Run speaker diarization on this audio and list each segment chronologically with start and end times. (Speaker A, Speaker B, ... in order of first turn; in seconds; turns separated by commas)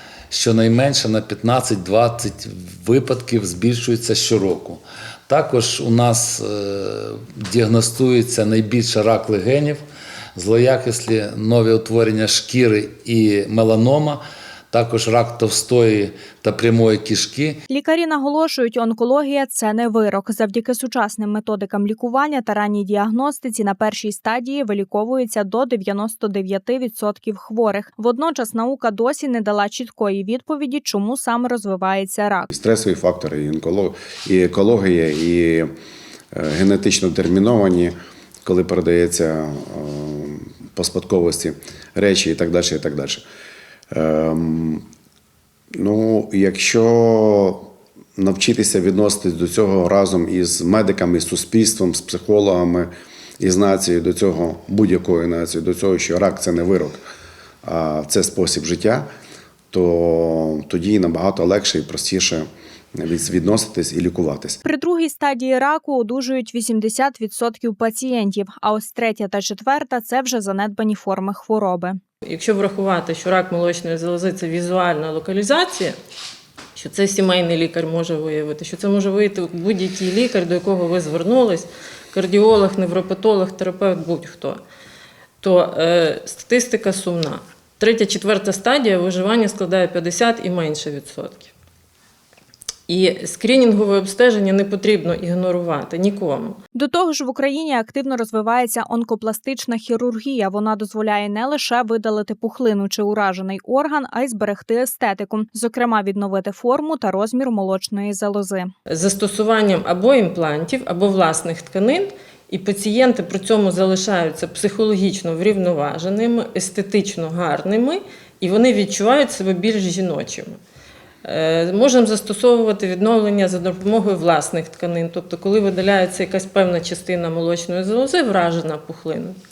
Speaker A: 0.3-9.8, Speaker A: 10.3-17.6, Speaker B: 17.7-32.5, Speaker C: 32.5-35.7, Speaker C: 36.3-43.2, Speaker C: 43.9-44.8, Speaker C: 45.7-47.6, Speaker C: 48.1-57.0, Speaker C: 57.6-59.1, Speaker C: 59.7-64.6, Speaker B: 64.6-72.0, Speaker D: 72.2-76.0, Speaker D: 76.8-84.6, Speaker D: 85.4-91.5, Speaker D: 92.9-96.6, Speaker B: 96.7-108.7, Speaker D: 108.9-120.6, Speaker D: 121.2-129.4